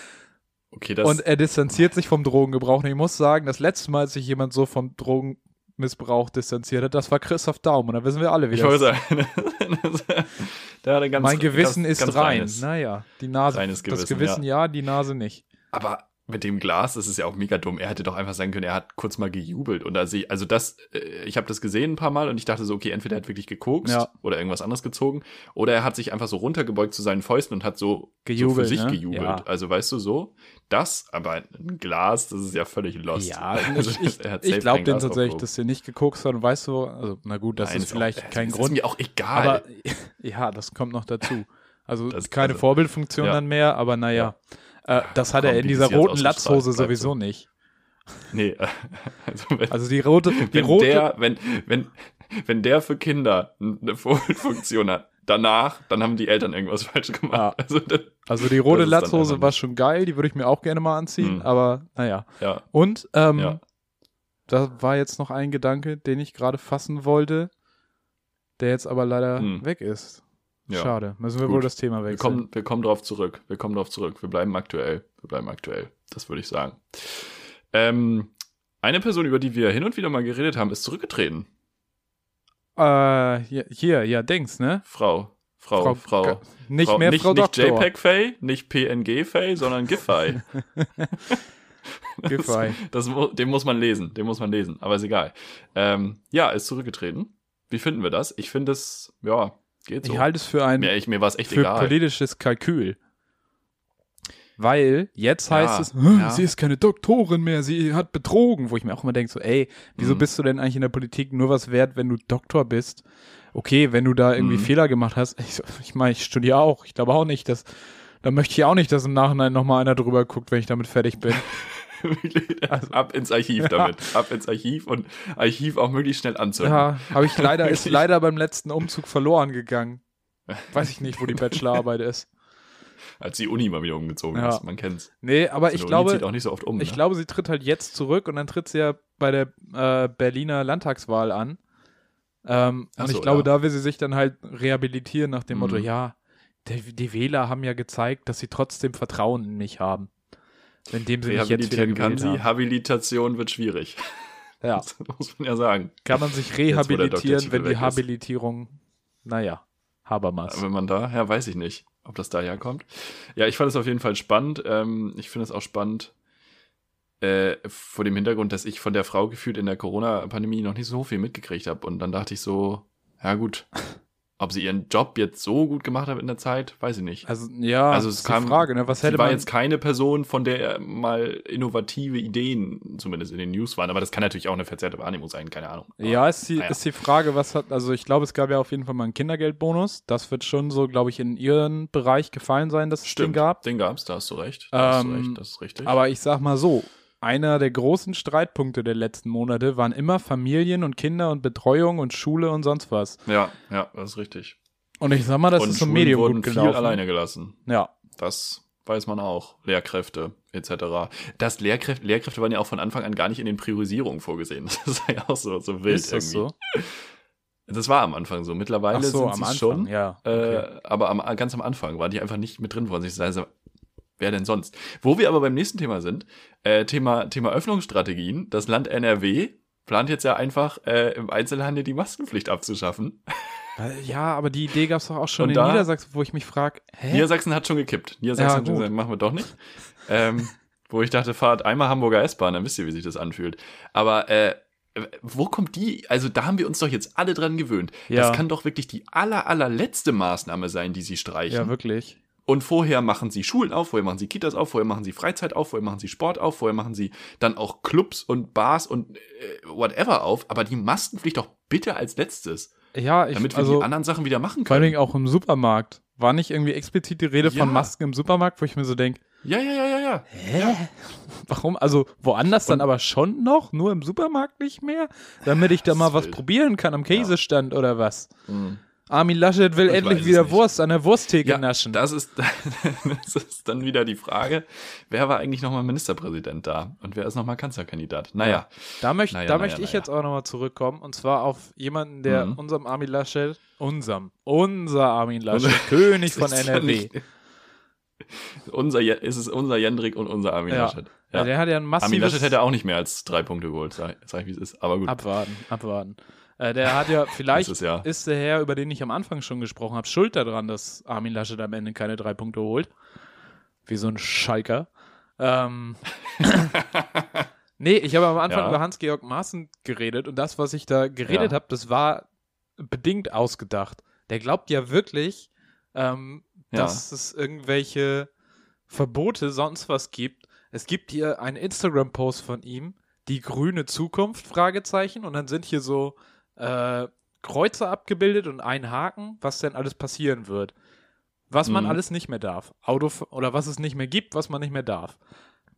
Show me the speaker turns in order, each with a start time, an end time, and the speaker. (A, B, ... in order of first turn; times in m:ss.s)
0:00.7-0:01.2 A
0:01.0-0:08.9 B
0:08.5-0:12.7 A
0:11.2-0:15.4 B
0:13.5-0:14.4 A
0:15.7-0:35.5 A
0:23.8-0:24.1 B
0:28.2-0:29.4 B
0:33.2-0:38.8 B
0:37.6-0:39.6 A
0:39.3-0:47.5 B
0:42.1-0:43.4 A
0:45.0-0:47.1 A
0:48.3-0:49.8 A
0:49.7-0:51.1 B
0:50.3-0:59.6 A
0:58.3-1:03.6 B
1:01.2-1:01.5 A
1:02.4-1:02.6 A
1:03.4-1:03.6 A
1:04.5-1:07.5 B
1:08.6-1:12.4 B
1:09.4-1:09.6 A
1:11.4-1:21.5 A
1:22.8-1:24.8 B
1:24.9-1:30.4 A
1:25.8-1:27.9 B
1:30.8-1:31.2 B
1:32.2-1:42.0 A
1:32.2-1:32.8 B
1:40.0-1:40.9 B
1:41.5-1:43.0 B
1:44.6-1:57.7 B
1:45.5-1:46.5 A
1:50.0-1:50.3 A
1:54.4-1:54.7 A
1:58.2-2:01.5 B
2:01.5-2:08.1 A
2:02.7-2:03.0 B
2:03.6-2:04.1 B
2:06.6-2:10.0 B
2:10.5-2:11.6 A
2:10.7-2:12.3 B
2:13.2-2:15.1 A
2:14.3-2:14.6 B
2:15.2-2:16.3 B
2:15.7-2:17.0 A
2:16.8-2:21.6 B
2:22.4-2:30.1 B
2:23.0-2:23.5 A
2:25.5-2:25.9 A
2:30.9-2:32.5 B
2:31.3-2:34.0 A
2:34.6-2:34.9 B
2:34.8-2:38.0 A
2:36.1-2:40.6 B
2:40.5-2:46.1 A
2:47.2-2:53.7 A
2:54.4-2:57.2 A
2:57.3-2:59.5 B
2:57.9-3:06.8 A
3:06.0-3:13.6 B
3:13.0-3:15.9 A
3:14.7-3:23.2 B
3:23.3-3:24.6 A
3:25.0-3:27.0 B
3:25.6-3:27.6 A
3:27.7-3:27.9 B
3:28.2-3:37.0 A
3:35.9-3:36.5 B
3:37.7-3:43.5 A
3:38.9-3:40.7 B
3:44.2-3:53.6 A
3:53.8-3:57.3 B
3:55.4-3:55.9 A
3:57.1-4:11.7 A
3:58.4-3:58.9 B
4:08.1-4:08.4 B
4:11.5-4:12.2 B
4:12.5-4:22.7 A
4:22.9-4:23.9 B
4:23.3-4:25.0 A
4:24.7-4:29.2 B
4:27.4-4:27.9 A
4:29.4-4:30.8 A
4:30.3-4:38.3 B
4:35.6-4:36.4 A
4:38.5-4:38.8 A
4:39.1-4:42.0 B
4:39.9-4:40.6 A
4:41.4-4:50.1 A
4:48.4-4:57.1 B
4:52.3-4:52.6 A
4:55.5-4:57.2 A
4:58.2-5:05.2 A
5:00.7-5:02.6 B
5:05.1-5:12.9 B
5:07.1-5:08.1 A
5:13.9-5:16.8 B
5:16.7-5:17.5 A
5:17.8-5:22.3 B
5:18.5-5:18.8 A
5:21.3-5:21.6 A
5:22.8-5:28.3 B
5:26.7-5:27.0 A
5:28.9-5:40.7 B
5:41.5-5:45.2 B
5:41.6-5:42.0 A